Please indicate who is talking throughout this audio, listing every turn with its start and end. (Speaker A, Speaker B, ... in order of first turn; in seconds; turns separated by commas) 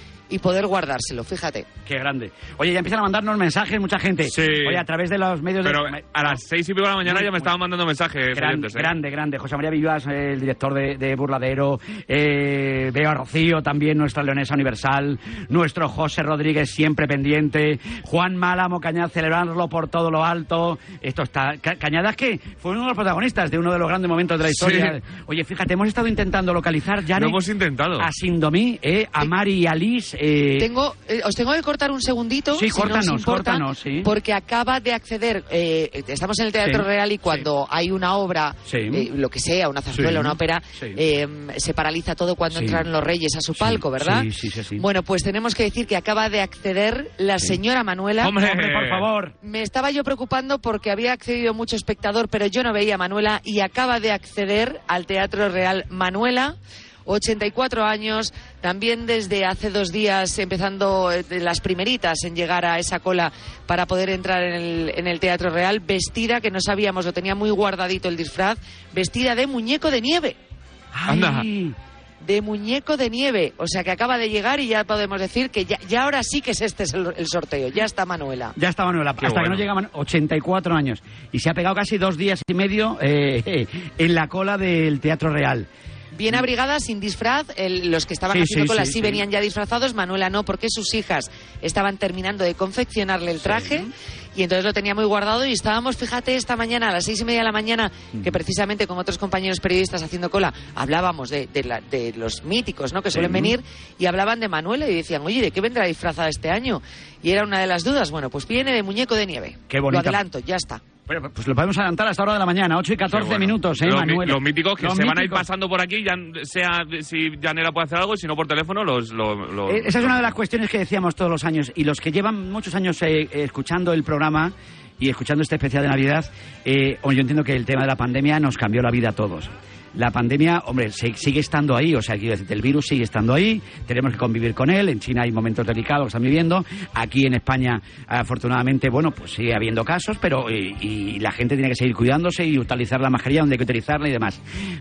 Speaker A: 0.3-1.7, Speaker B: 1.9-6.4, Speaker C: 4.3-4.8, Speaker C: 5.6-8.9, Speaker B: 7.0-7.5, Speaker B: 8.3-27.4, Speaker C: 24.5-25.0, Speaker C: 27.2-28.1, Speaker B: 28.0-30.7, Speaker A: 30.6-48.4, Speaker B: 32.5-34.1, Speaker B: 36.6-37.5, Speaker B: 38.7-39.1, Speaker B: 39.9-41.0, Speaker B: 42.5-42.9, Speaker B: 43.6-44.9, Speaker C: 48.2-49.1, Speaker B: 48.4-49.3, Speaker A: 49.4-70.4, Speaker B: 70.9-71.8, Speaker C: 71.1-71.5, Speaker A: 72.2-78.5, Speaker B: 78.6-85.7, Speaker C: 79.2-79.7, Speaker A: 86.1-110.8, Speaker B: 88.3-89.2, Speaker B: 93.4-93.9, Speaker B: 103.1-103.6, Speaker B: 109.7-110.2, Speaker B: 111.1-115.5, Speaker C: 113.0-120.3, Speaker B: 119.7-144.4